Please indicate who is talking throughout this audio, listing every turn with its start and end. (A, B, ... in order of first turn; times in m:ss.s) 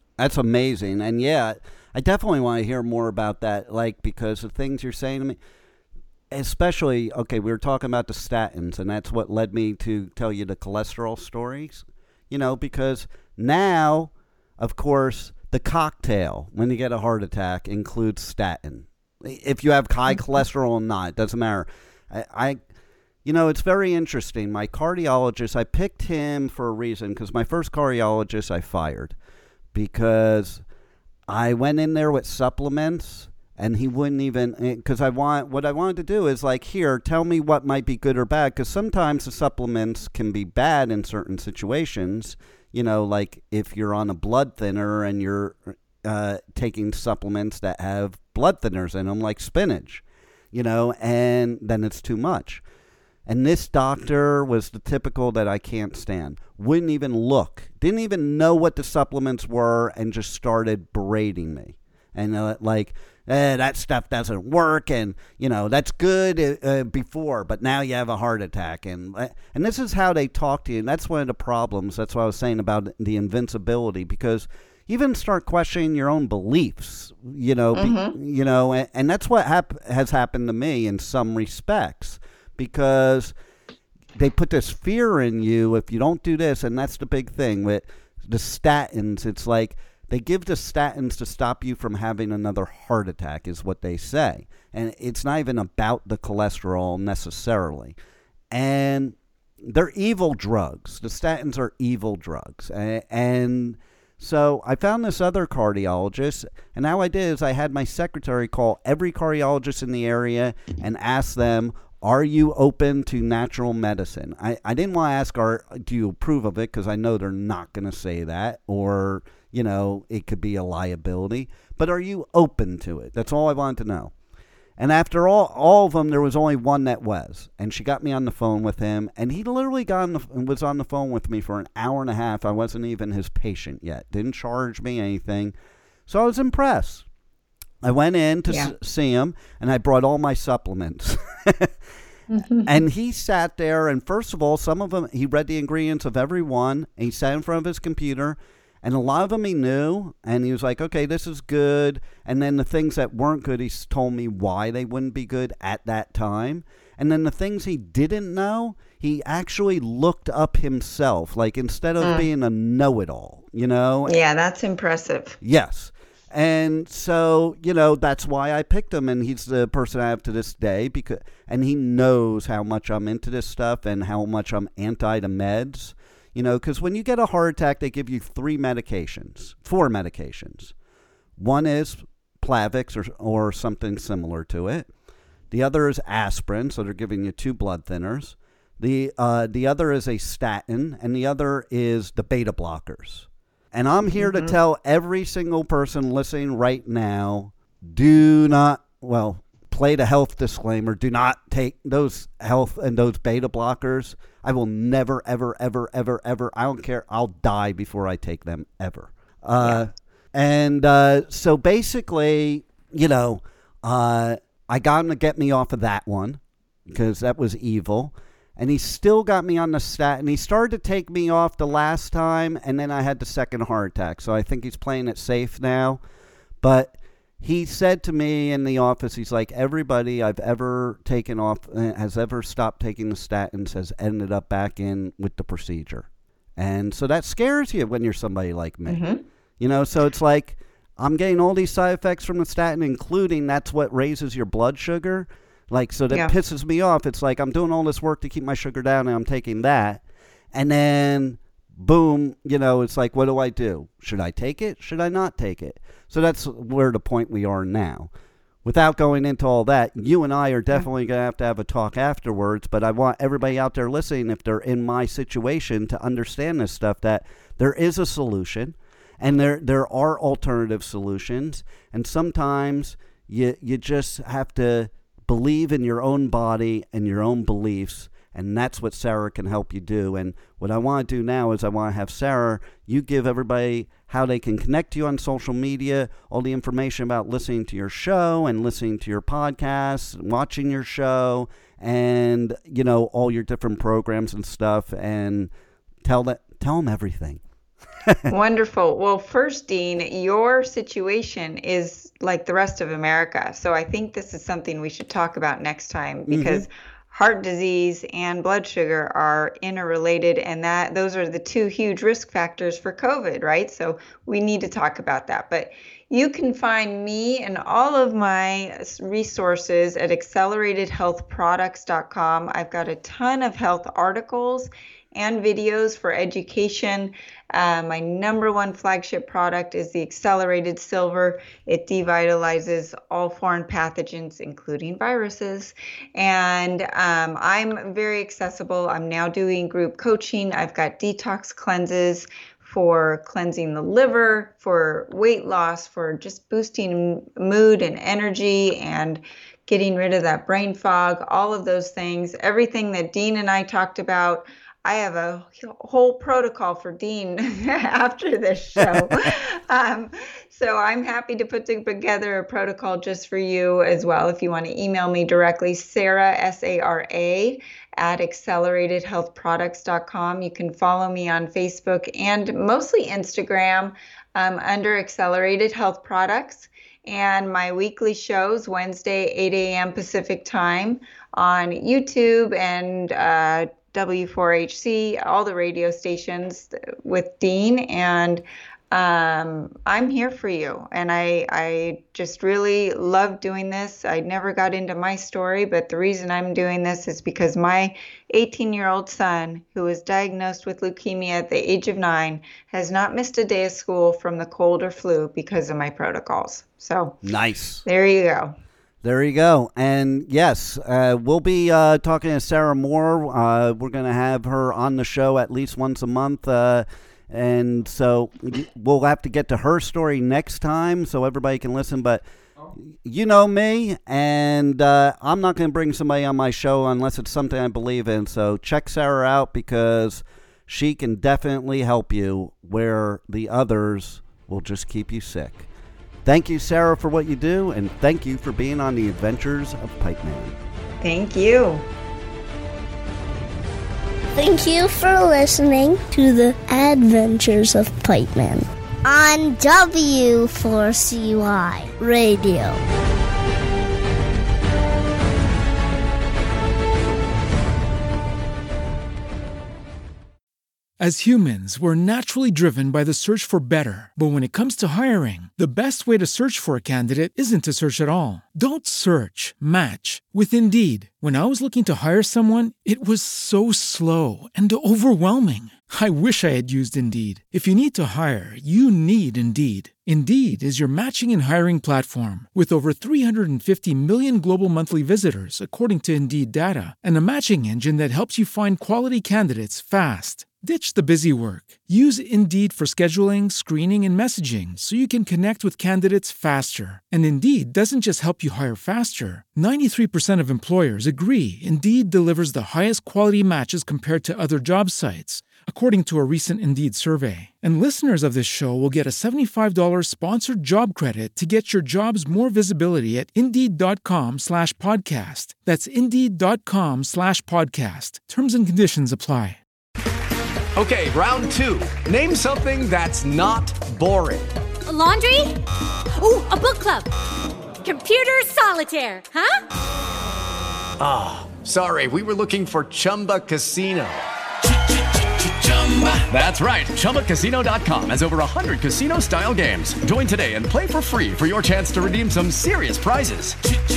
0:00.2-0:05.4 A
0:06.3-0:22.6 A
0:23.2-0:29.2 A
0:29.7-0:30.6 A
0:31.3-0:52.6 A
0:53.3-1:23.3 A
1:17.8-1:18.2 B
1:24.2-1:38.0 A
1:38.5-2:04.1 A
2:04.8-2:15.6 A
2:16.1-2:17.0 A
2:17.8-2:21.7 A
2:22.3-2:22.8 B
2:22.6-2:44.2 A
2:42.0-2:42.3 B
2:44.1-2:45.4 B
2:45.4-3:00.7 A
3:01.4-3:04.9 A
3:05.5-3:46.0 A
3:14.2-3:14.6 B
3:46.6-3:59.0 A
3:58.9-3:59.2 B
3:59.6-4:18.1 A
4:18.6-4:55.5 A
4:56.0-4:57.4 A
4:58.0-4:58.3 A
4:58.3-6:47.2 B
5:06.3-5:06.7 A
6:47.2-6:47.8 A
6:47.8-6:48.6 B
6:49.0-7:02.2 A
7:02.8-7:15.7 A
7:16.2-7:20.6 A
7:21.0-7:21.9 B
7:24.4-7:32.8 C
7:41.0-8:39.6 D
8:40.8-8:44.5 E
8:44.9-8:45.6 F
8:46.2-8:47.1 F
8:47.8-8:49.6 F
8:51.0-8:54.2 E
8:55.4-9:03.6 E